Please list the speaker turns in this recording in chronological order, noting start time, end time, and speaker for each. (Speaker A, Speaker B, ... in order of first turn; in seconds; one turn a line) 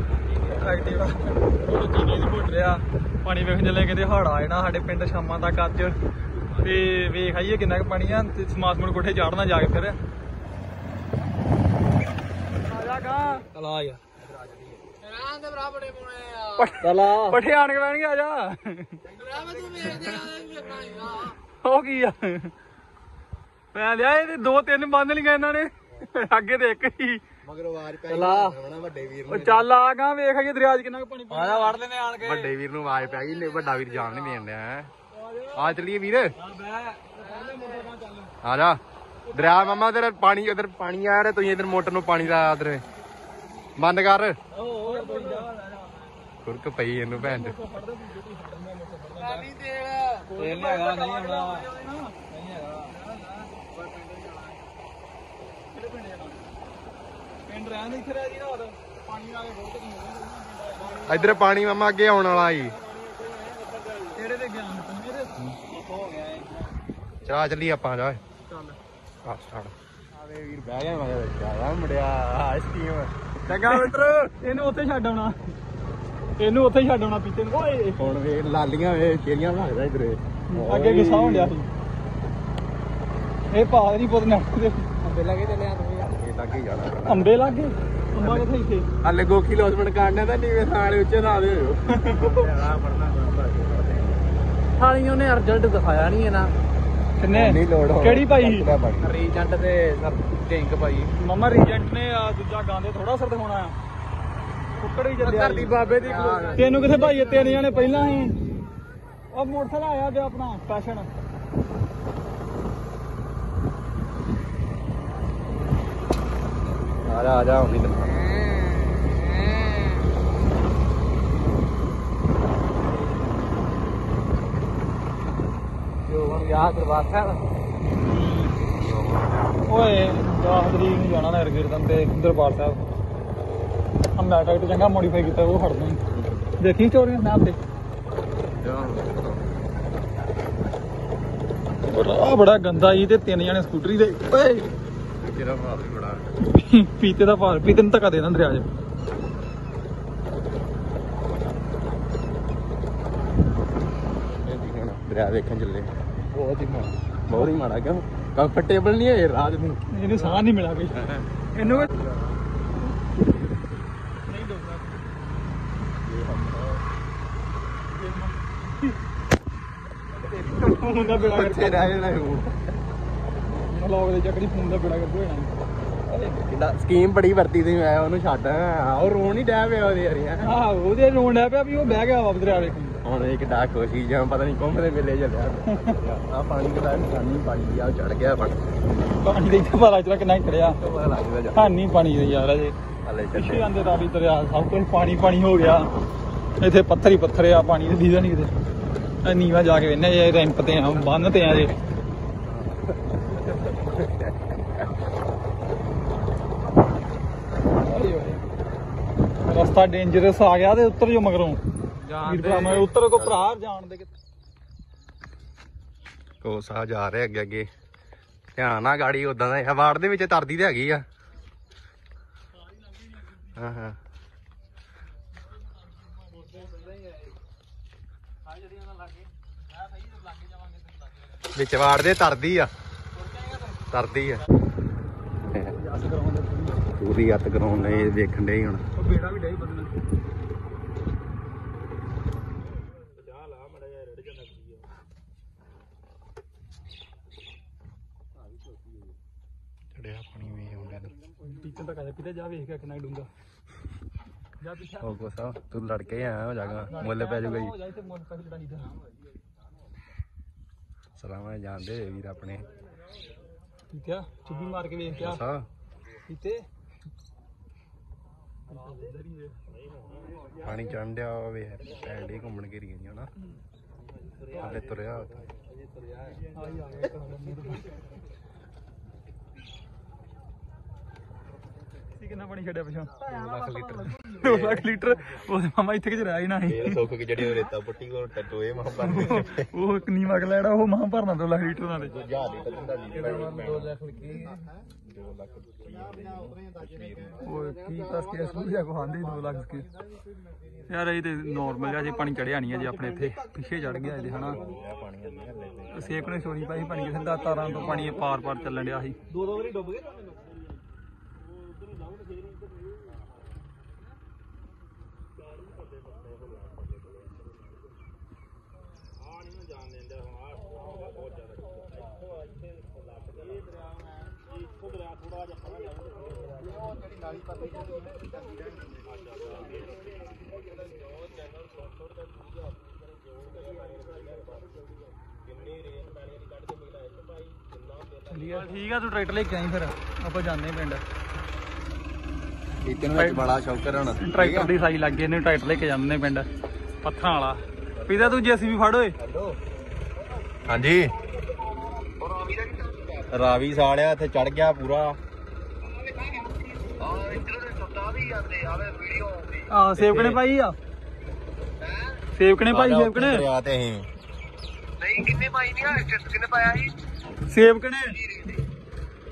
Speaker A: 0.5-6.0
Speaker A: 6.5-10.0
Speaker A: 12.6-13.5
Speaker B: 13.5-17.4
Speaker A: 16.5-19.0
Speaker B: 19.2-21.2
Speaker A: 19.8-22.5
Speaker A: 23.7-27.2
Speaker C: 27.4-29.6
Speaker A: 28.1-28.6
Speaker A: 29.3-32.5
Speaker C: 32.2-34.9
Speaker A: 35.1-35.8
Speaker C: 35.5-36.3
Speaker A: 36.4-38.3
Speaker B: 37.2-37.8
Speaker C: 38.4-38.8
Speaker C: 39.3-42.9
Speaker C: 43.8-44.4
Speaker A: 44.6-45.9
Speaker B: 44.7-45.5
Speaker C: 46.4-47.5
Speaker A: 47.1-49.5
Speaker B: 49.4-51.7
Speaker A: 50.2-53.5
Speaker B: 52.3-52.8
Speaker B: 53.7-54.6
Speaker A: 55.7-56.4
Speaker A: 57.5-61.4
Speaker C: 61.0-62.8
Speaker B: 62.5-64.1
Speaker A: 64.1-66.3
Speaker B: 65.9-66.5
Speaker C: 67.2-68.2
Speaker C: 69.2-74.3
Speaker A: 73.5-75.5
Speaker A: 76.4-78.0
Speaker C: 78.0-81.5
Speaker A: 80.5-81.7
Speaker A: 83.5-84.9
Speaker B: 85.0-86.1
Speaker C: 86.1-87.4
Speaker A: 87.1-88.9
Speaker C: 89.0-92.2
Speaker A: 91.9-92.4
Speaker B: 92.2-94.0
Speaker B: 94.8-96.5
Speaker A: 97.2-98.7
Speaker C: 97.3-99.1
Speaker B: 99.0-101.1
Speaker A: 101.2-103.8
Speaker A: 104.8-108.4
Speaker B: 105.2-107.3
Speaker C: 105.9-106.8
Speaker A: 109.3-111.1
Speaker C: 117.0-118.3
Speaker B: 126.1-127.4
Speaker A: 128.0-128.6
Speaker C: 128.8-129.5
Speaker A: 129.7-132.8
Speaker A: 134.2-136.0
Speaker C: 136.1-136.4
Speaker A: 136.6-137.6
Speaker C: 138.4-139.4
Speaker A: 141.8-144.7
Speaker C: 145.2-146.3
Speaker A: 146.4-148.7
Speaker C: 154.4-162.4
Speaker A: 159.9-161.9
Speaker A: 164.2-164.9
Speaker C: 166.0-166.8
Speaker A: 167.9-168.9
Speaker A: 170.2-171.9
Speaker C: 170.4-172.6
Speaker A: 173.5-175.5
Speaker A: 176.1-176.4
Speaker C: 176.5-180.5
Speaker A: 180.4-183.0
Speaker C: 183.0-188.6
Speaker A: 185.7-185.9
Speaker A: 189.2-190.8
Speaker C: 190.8-191.7
Speaker A: 191.5-192.7
Speaker C: 193.0-193.7
Speaker A: 193.3-195.9
Speaker A: 196.6-198.5
Speaker A: 199.2-201.7
Speaker C: 202.5-204.9
Speaker A: 207.8-208.4
Speaker A: 209.4-211.6
Speaker B: 212.0-212.8
Speaker A: 212.2-214.1
Speaker C: 212.6-213.4
Speaker C: 216.4-217.7
Speaker C: 218.6-221.0
Speaker C: 223.4-224.0
Speaker C: 231.5-232.7
Speaker C: 233.9-234.4
Speaker A: 235.7-236.9
Speaker C: 236.8-238.8
Speaker A: 238.9-239.9
Speaker D: 243.7-244.5
Speaker C: 249.9-251.1
Speaker A: 251.4-253.3
Speaker A: 254.6-255.1
Speaker C: 255.0-257.8
Speaker A: 256.9-259.0
Speaker C: 261.2-262.7
Speaker A: 263.9-265.4
Speaker C: 265.1-265.7
Speaker A: 266.2-266.6
Speaker A: 268.7-269.6
Speaker C: 270.6-273.3
Speaker C: 274.5-275.4
Speaker A: 276.5-277.9
Speaker A: 282.1-283.3
Speaker C: 283.3-284.9
Speaker A: 284.2-287.1
Speaker C: 286.7-289.7
Speaker A: 289.0-292.1
Speaker C: 292.1-294.0
Speaker B: 293.2-294.4
Speaker C: 295.1-297.4
Speaker A: 297.4-299.9
Speaker A: 300.9-304.6
Speaker C: 304.2-306.3
Speaker A: 305.9-309.2
Speaker C: 307.7-308.2
Speaker B: 309.3-310.1
Speaker D: 335.8-336.3
Speaker D: 336.9-337.5
Speaker A: 338.2-341.0
Speaker C: 342.8-344.7
Speaker A: 343.1-343.4
Speaker A: 344.2-346.5
Speaker A: 347.0-349.1
Speaker C: 348.0-348.4
Speaker C: 349.2-349.6
Speaker C: 350.7-351.1
Speaker C: 352.4-352.7
Speaker C: 353.2-355.2
Speaker C: 357.1-359.2
Speaker D: 357.5-359.4
Speaker A: 359.7-360.8
Speaker C: 359.9-360.4
Speaker A: 362.3-363.5
Speaker C: 362.7-364.1
Speaker D: 365.0-366.9
Speaker A: 367.5-368.3